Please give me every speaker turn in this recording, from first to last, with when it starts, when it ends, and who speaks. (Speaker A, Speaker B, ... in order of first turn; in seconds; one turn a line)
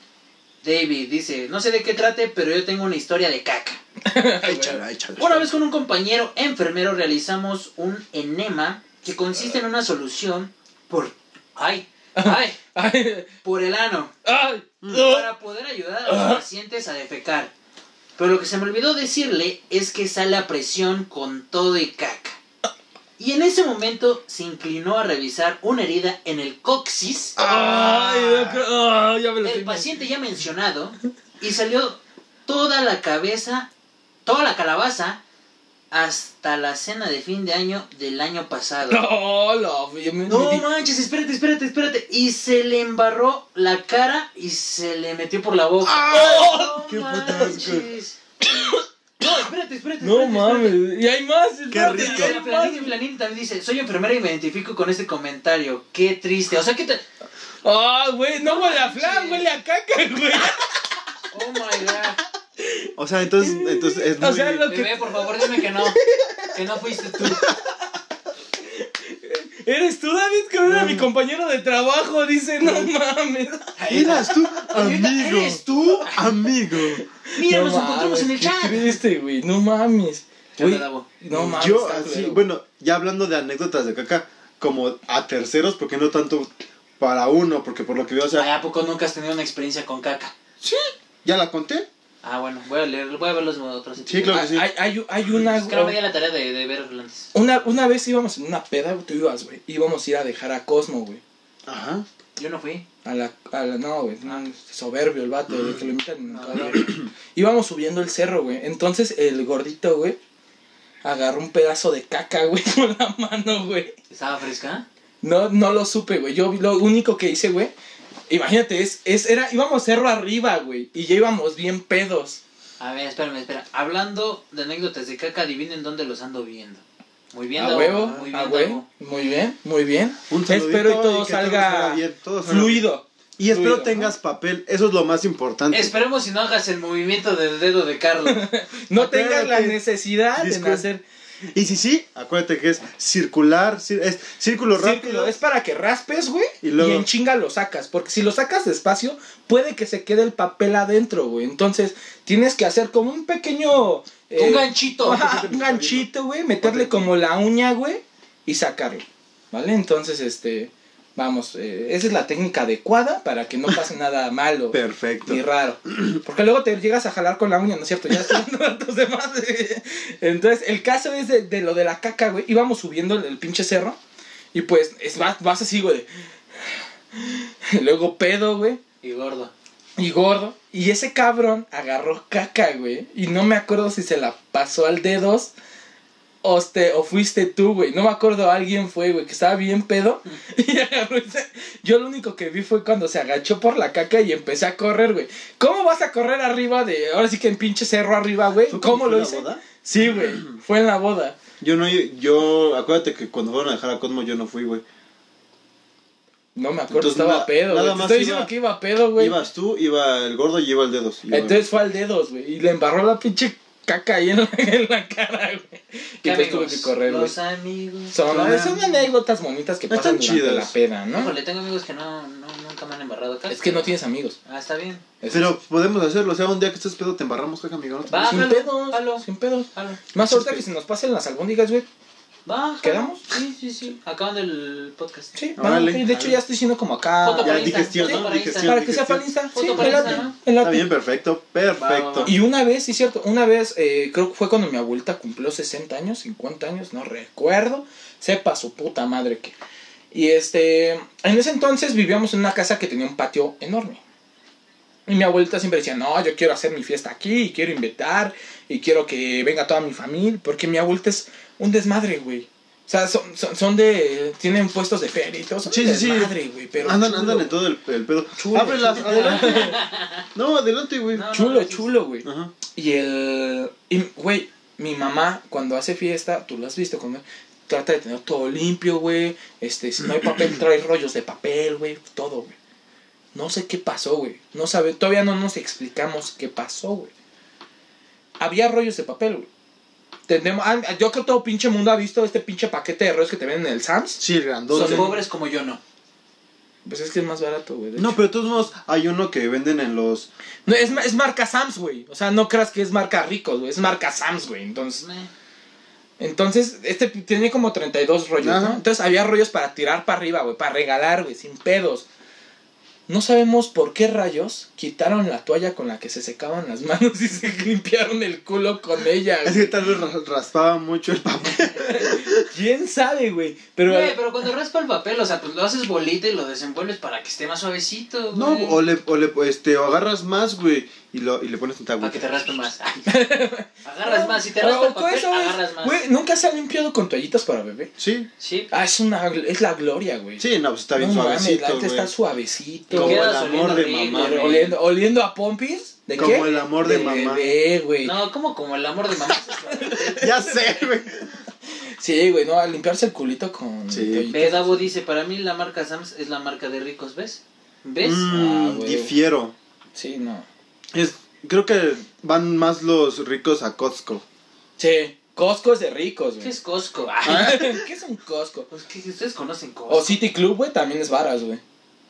Speaker A: 0.6-3.8
Speaker B: 4.0-4.8
Speaker C: 4.4-5.5
Speaker A: 5.2-12.6
Speaker B: 12.2-13.3
Speaker A: 13.4-14.1
Speaker B: 14.2-15.3
Speaker A: 14.9-17.5
Speaker B: 16.1-16.4
Speaker A: 18.2-22.4
Speaker A: 23.2-27.4
Speaker C: 27.4-28.6
Speaker B: 27.4-29.9
Speaker A: 29.4-33.7
Speaker A: 34.2-35.2
Speaker A: 35.9-39.0
Speaker B: 38.9-40.6
Speaker A: 40.3-48.2
Speaker C: 45.8-47.9
Speaker B: 46.0-47.6
Speaker B: 48.4-49.4
Speaker A: 49.2-50.8
Speaker B: 50.0-52.9
Speaker C: 51.7-52.4
Speaker A: 51.8-57.0
Speaker B: 57.6-60.8
Speaker A: 58.4-59.5
Speaker A: 61.3-62.2
Speaker B: 62.6-67.6
Speaker C: 63.0-64.7
Speaker A: 64.7-66.0
Speaker A: 66.5-67.5
Speaker B: 68.6-73.8
Speaker C: 70.6-71.1
Speaker C: 72.6-72.9
Speaker A: 73.8-76.2
Speaker C: 73.9-77.0
Speaker B: 74.8-75.5
Speaker B: 77.0-82.4
Speaker A: 77.3-79.0
Speaker A: 80.6-81.1
Speaker C: 81.3-88.5
Speaker A: 88.3-90.3
Speaker C: 90.6-91.9
Speaker A: 92.2-94.4
Speaker C: 94.0-94.7
Speaker B: 94.3-96.0
Speaker A: 95.4-97.3
Speaker B: 97.3-101.2
Speaker C: 101.7-102.0
Speaker A: 102.3-102.8
Speaker B: 103.0-110.2
Speaker C: 105.5-105.8
Speaker C: 106.4-107.1
Speaker B: 111.0-114.0
Speaker A: 114.1-114.8
Speaker B: 115.2-117.7
Speaker B: 118.3-122.4
Speaker A: 122.8-128.8
Speaker B: 127.6-134.1
Speaker C: 127.6-128.2
Speaker C: 130.3-135.9
Speaker A: 135.7-138.5
Speaker B: 138.2-141.0
Speaker C: 138.9-139.8
Speaker C: 140.3-140.8
Speaker C: 141.5-145.4
Speaker B: 144.7-174.0
Speaker C: 146.6-147.1
Speaker A: 154.3-155.2
Speaker C: 155.0-156.1
Speaker C: 156.6-157.1
Speaker C: 164.7-166.2
Speaker B: 174.5-176.1
Speaker B: 176.6-178.8
Speaker A: 179.0-179.5
Speaker B: 180.0-185.5
Speaker B: 186.4-201.4
Speaker C: 198.7-200.6
Speaker C: 201.6-204.8
Speaker B: 206.5-209.4
Speaker C: 206.9-208.5
Speaker C: 209.2-211.6
Speaker B: 211.3-217.3
Speaker A: 216.2-218.7
Speaker B: 218.1-221.3
Speaker C: 218.3-218.8
Speaker C: 219.9-220.7
Speaker A: 221.1-225.0
Speaker B: 223.5-224.4
Speaker B: 225.2-225.5
Speaker C: 225.3-228.5
Speaker A: 228.1-230.0
Speaker B: 228.1-231.8
Speaker C: 230.2-230.6
Speaker A: 232.4-235.3
Speaker B: 232.8-233.3
Speaker B: 235.3-240.9
Speaker C: 235.6-236.4
Speaker A: 237.2-238.7
Speaker C: 237.4-242.3
Speaker A: 239.5-240.3
Speaker A: 241.7-242.3
Speaker B: 242.2-249.5
Speaker B: 250.1-254.0
Speaker B: 255.1-267.6
Speaker C: 265.6-269.7
Speaker B: 268.4-269.8
Speaker A: 269.0-270.2
Speaker C: 270.3-271.3
Speaker A: 271.1-271.9
Speaker B: 271.3-282.5
Speaker C: 272.2-272.5
Speaker C: 280.0-280.6
Speaker B: 283.3-287.1
Speaker B: 288.4-289.5
Speaker B: 290.3-295.2
Speaker C: 294.2-295.2
Speaker A: 294.7-295.8
Speaker B: 296.8-298.3
Speaker C: 298.0-301.1
Speaker B: 300.6-305.0
Speaker A: 305.0-305.3
Speaker B: 306.2-312.1
Speaker C: 308.4-308.8
Speaker B: 313.1-319.9
Speaker C: 319.4-322.5
Speaker B: 321.6-324.2
Speaker A: 323.8-328.8
Speaker C: 328.3-332.6
Speaker A: 332.0-333.0
Speaker B: 333.0-337.9
Speaker A: 333.8-336.0
Speaker C: 338.0-338.3
Speaker A: 338.4-338.7
Speaker B: 338.7-343.4
Speaker C: 340.4-342.1
Speaker C: 342.9-344.6
Speaker A: 342.9-344.8
Speaker B: 344.1-348.2
Speaker C: 346.1-347.5
Speaker A: 346.2-350.1
Speaker B: 349.5-350.8
Speaker C: 350.1-351.4
Speaker B: 352.0-354.9
Speaker C: 353.9-354.3
Speaker A: 354.3-358.2
Speaker C: 358.0-359.5
Speaker B: 358.3-359.1
Speaker B: 359.9-360.4
Speaker C: 360.9-364.2
Speaker B: 364.8-366.5
Speaker A: 366.4-367.7
Speaker C: 367.2-367.8
Speaker B: 367.2-368.7
Speaker A: 368.7-370.2
Speaker B: 369.9-371.6